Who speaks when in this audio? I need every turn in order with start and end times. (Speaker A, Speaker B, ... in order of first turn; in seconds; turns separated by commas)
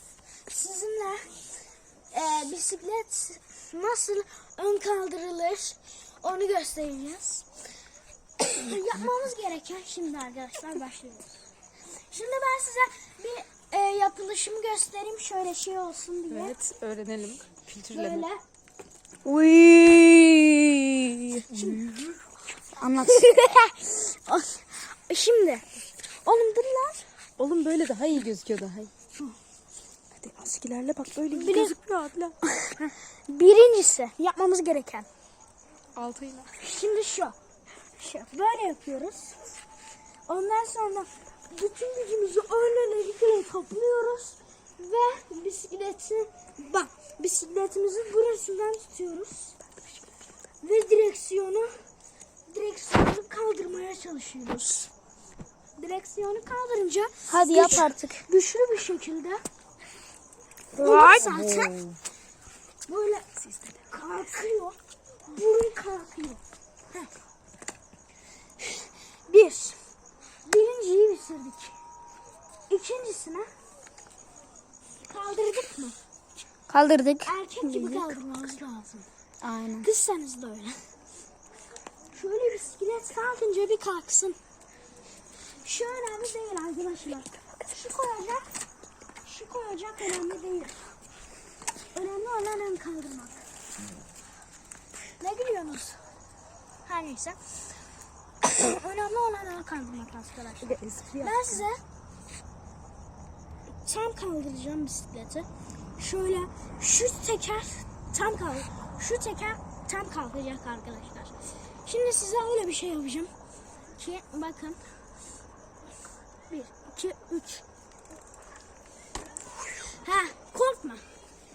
Speaker A: 0.5-1.4, Speaker A: 2.1-7.4, Speaker A: 8.4-11.4, Speaker A: 12.0-16.5, Speaker B: 16.3-18.3, Speaker A: 17.9-18.4, Speaker C: 19.2-21.4, Speaker A: 21.5-22.0, Speaker B: 21.5-22.0, Speaker C: 22.8-23.3, Speaker A: 23.0-25.6, Speaker A: 26.2-27.1, Speaker B: 27.4-28.9, Speaker B: 30.2-32.4, Speaker A: 31.3-31.7, Speaker A: 33.3-35.1, Speaker B: 36.0-36.5, Speaker A: 36.6-37.4, Speaker A: 38.0-39.5, Speaker A: 40.3-49.5, Speaker A: 50.6-51.8, Speaker A: 52.5-54.9, Speaker A: 55.8-59.4, Speaker C: 57.3-58.2, Speaker B: 60.8-62.0, Speaker A: 60.8-61.8, Speaker C: 60.8-61.3, Speaker A: 62.9-63.2, Speaker A: 63.9-66.4, Speaker A: 68.6-69.8, Speaker A: 70.4-71.8, Speaker A: 72.7-73.5, Speaker A: 75.0-76.0, Speaker C: 76.7-78.2, Speaker A: 77.2-79.1, Speaker C: 79.4-79.9, Speaker A: 79.8-80.8, Speaker A: 82.1-84.4, Speaker A: 85.6-88.5, Speaker A: 89.2-90.8, Speaker A: 91.9-93.4, Speaker A: 95.2-96.0, Speaker A: 96.8-97.4, Speaker A: 98.4-101.8, Speaker B: 100.6-101.6, Speaker A: 103.8-105.5, Speaker A: 106.0-111.3, Speaker A: 111.8-113.3, Speaker A: 114.0-114.8, Speaker A: 116.5-117.6, Speaker A: 119.9-121.1